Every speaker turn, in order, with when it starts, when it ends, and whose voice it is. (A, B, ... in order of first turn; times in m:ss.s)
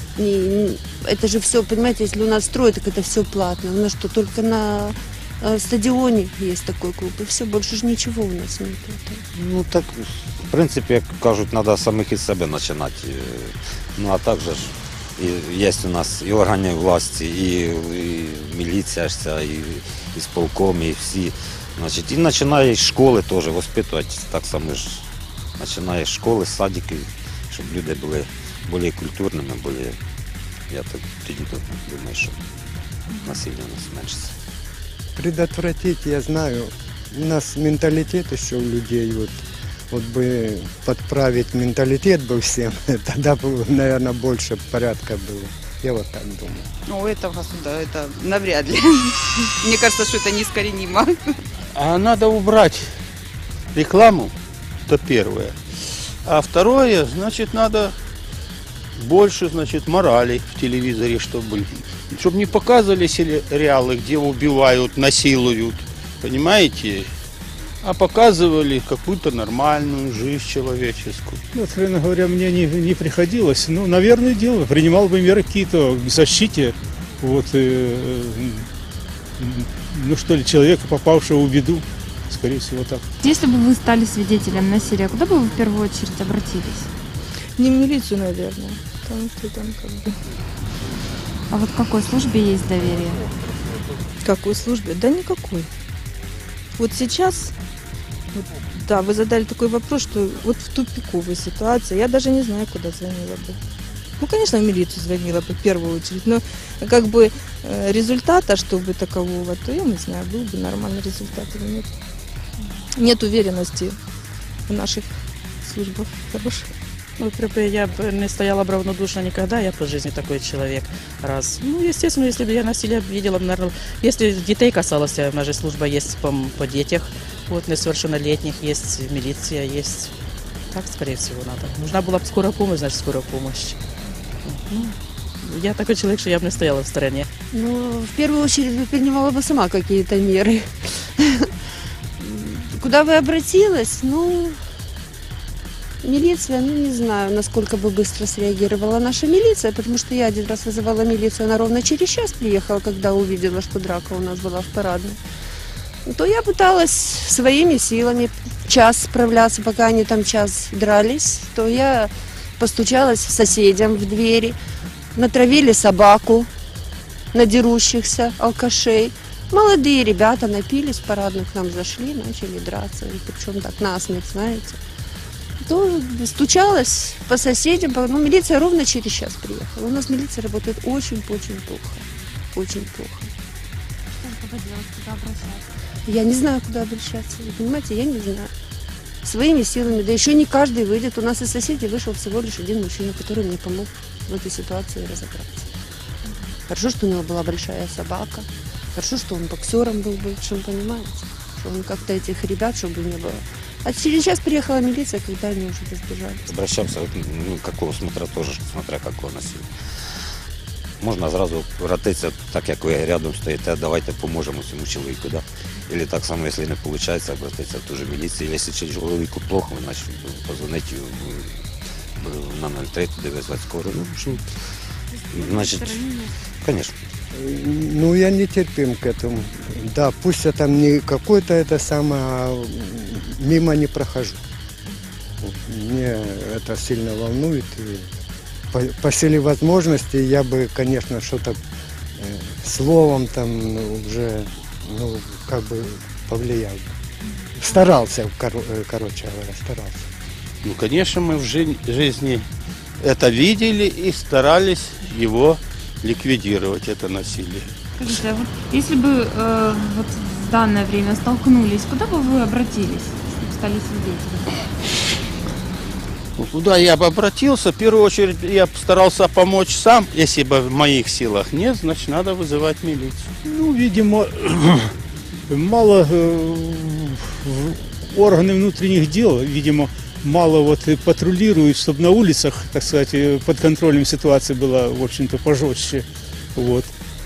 0:00.2-0:09.2 A
0:09.3-0:25.1 B
0:25.6-0:30.0 B
0:30.7-0:32.4 B
0:33.2-0:34.3 B
0:35.2-0:46.7 C
0:46.9-0:51.3 D
0:51.7-0:52.9 E
0:53.7-0:54.3 E
0:54.9-0:55.5 E
0:56.2-0:57.9 E
0:59.0-1:07.1 E
1:07.8-1:11.4 E
1:11.5-1:18.7 F
1:19.4-1:23.0 F
1:23.2-1:26.9 G
1:27.6-1:30.2 H
1:31.5-1:33.2 G
1:34.2-1:35.7 H
1:36.8-1:37.5 H
1:38.3-1:43.6 H
1:44.2-1:51.9 H
1:52.9-1:54.0 H
1:54.7-1:56.7 H
1:57.2-2:10.1 I
2:10.7-2:13.8 I
2:14.4-2:17.2 I
2:17.5-2:21.5 A
2:22.2-2:24.6 A
2:26.0-2:35.2 A
2:36.0-2:44.6 A
2:45.1-2:46.5 A
2:47.3-2:54.8 A
2:55.6-3:02.0 A
3:02.5-3:03.3 A
3:04.1-3:05.6 G
3:06.0-3:08.5 A
3:09.2-3:15.6 A
3:16.7-3:26.5 A
3:26.5-3:29.6 B
3:31.0-3:41.5 B
3:42.2-3:44.4 B
3:45.1-3:46.3 G
3:45.3-3:47.0 B
3:47.3-3:54.4 C
3:55.4-3:58.1 C
3:58.7-4:01.6 C
4:02.2-4:06.8 C
4:07.6-4:10.0 C
4:10.6-4:12.4 E
4:13.0-4:17.7 E
4:18.0-4:24.5 G
4:26.4-4:33.3 E
4:33.4-4:34.9 F
4:35.5-4:46.9 F